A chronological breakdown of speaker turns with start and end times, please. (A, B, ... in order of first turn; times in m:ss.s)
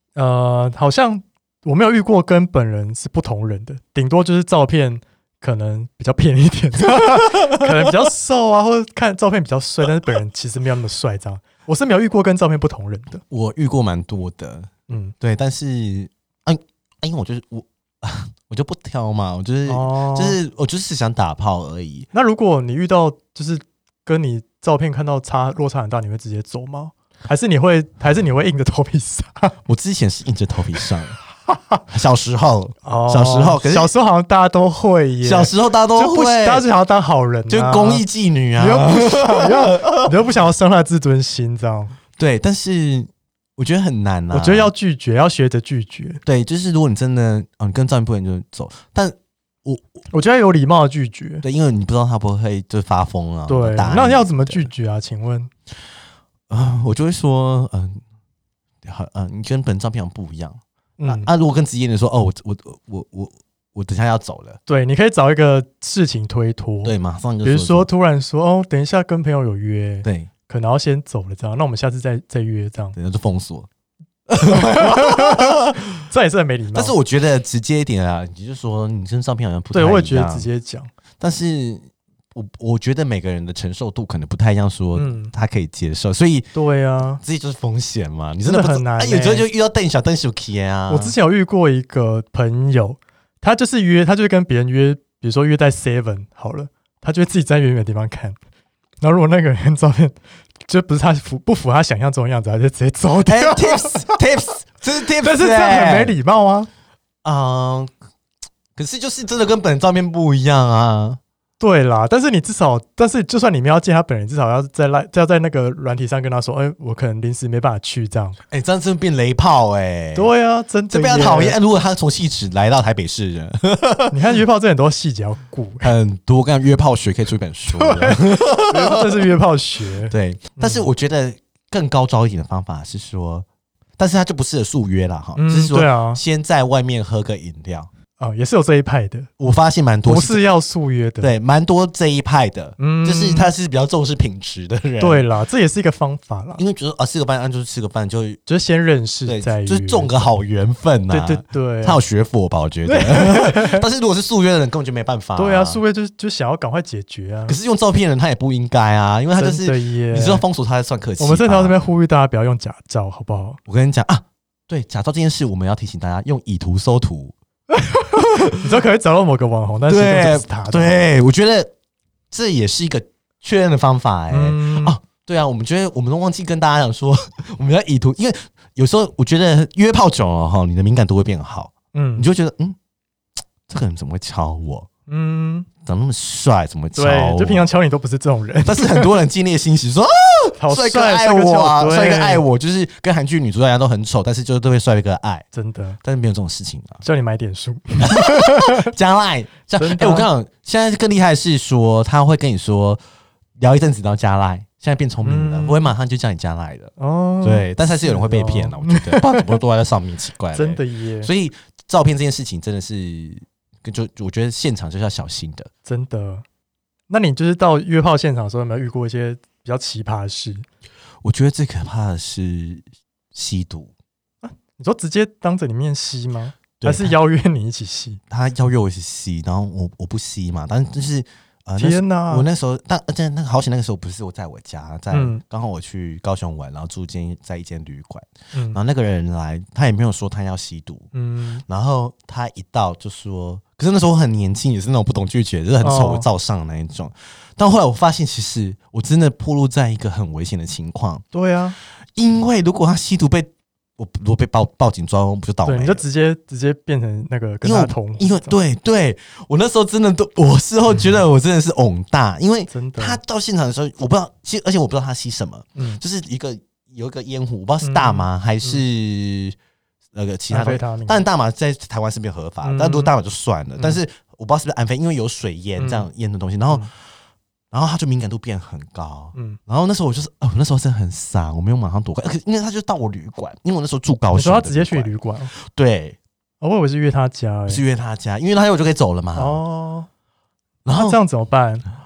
0:00.1-0:13.2 A
0:13.3-0:22.1 B
0:14.9-0:15.1 A
0:19.7-0:20.4 A
0:22.1-0:29.6 A
0:29.6-0:31.2 B
0:31.5-0:31.8 A
0:31.9-0:33.9 B
0:32.8-0:38.0 A
0:35.2-0:36.6 B
0:37.5-0:40.1 B
0:38.6-0:41.9 A
0:42.2-0:44.7 B
0:44.3-0:46.2 A
0:46.2-0:50.0 B
0:50.1-0:51.4 A
0:51.4-0:54.7 B
0:53.5-0:55.5 A
0:56.5-0:58.0 B
0:58.8-1:04.6 B
1:01.0-1:01.3 A
1:04.7-1:13.0 A
1:06.8-1:07.9 B
1:10.0-1:10.3 B
1:13.0-1:13.7 B
1:14.3-1:16.0 B
1:14.5-1:16.9 A
1:16.7-1:20.5 B
1:19.7-1:20.9 A
1:21.2-1:26.5 B
1:25.0-1:25.3 A
1:26.5-1:27.2 A
1:27.2-1:31.1 B
1:28.4-1:29.4 A
1:30.9-1:38.4 A
1:39.0-1:44.2 A
1:43.2-1:46.1 B
1:45.2-1:46.7 A
1:47.2-1:47.9 B
1:48.8-1:51.2 B
1:51.6-1:58.4 A
1:58.5-2:00.3 B
2:00.1-2:01.6 A
2:00.9-2:04.2 B
2:04.1-2:05.9 A
2:05.8-2:09.3 B
2:07.8-2:10.9 A
2:10.1-2:13.5 B
2:14.0-2:17.9 B
2:15.4-2:16.2 A
2:18.2-2:19.3 A
2:19.4-2:20.4 B
2:20.0-2:21.3 A
2:21.2-2:25.3 B
2:22.8-2:23.5 A
2:25.0-2:26.6 A
2:26.6-2:28.4 B
2:28.5-2:30.1 A
2:29.2-2:35.8 B
2:31.1-2:32.0 A
2:32.9-2:33.8 A
2:35.4-2:37.6 A
2:37.5-2:41.8 B
2:39.4-2:40.4 A
2:41.2-2:43.6 A
2:43.7-2:47.4 B
2:47.7-2:51.0 A
2:48.2-2:48.6 B
2:49.9-2:51.7 B
2:52.3-3:02.8 B
2:54.3-2:55.0 A
3:01.9-3:02.3 A
3:03.7-3:04.9 B
3:05.1-3:05.7 A
3:05.8-3:07.7 B
3:07.0-3:09.1 A
3:08.6-3:15.4 B
3:10.6-3:12.4 A
3:15.5-3:16.0 A
3:16.0-3:17.0 B
3:17.0-3:18.9 A
3:18.0-3:23.0 B
3:19.8-3:20.3 A
3:23.6-3:35.7 B
3:25.2-3:25.9 A
3:27.0-3:29.5 A
3:30.5-3:31.3 A
3:35.9-3:36.4 A
3:37.1-3:40.6 A
3:41.2-3:43.9 B
3:44.4-3:48.2 A
3:46.8-3:47.1 B
3:48.3-4:01.1 B
3:51.8-3:52.5 A
3:55.1-3:55.4 A
3:58.5-3:58.8 A
4:01.1-4:01.6 A
4:01.7-4:11.2 B
4:05.8-4:06.3 A
4:11.3-4:11.8 A
4:12.2-4:16.0 B
4:15.6-4:18.6 A
4:17.6-4:29.6 B
4:22.7-4:23.2 A
4:25.8-4:26.0 A
4:27.8-4:28.8 A
4:30.1-4:36.9 B
4:30.5-4:31.2 A
4:32.6-4:33.1 A
4:35.8-4:36.1 A
4:37.7-4:46.2 B
4:44.3-4:45.5 A
4:46.6-4:47.8 A
4:47.7-4:49.6 B
4:49.4-4:50.1 A
4:50.8-4:51.2 B
4:51.0-4:51.8 A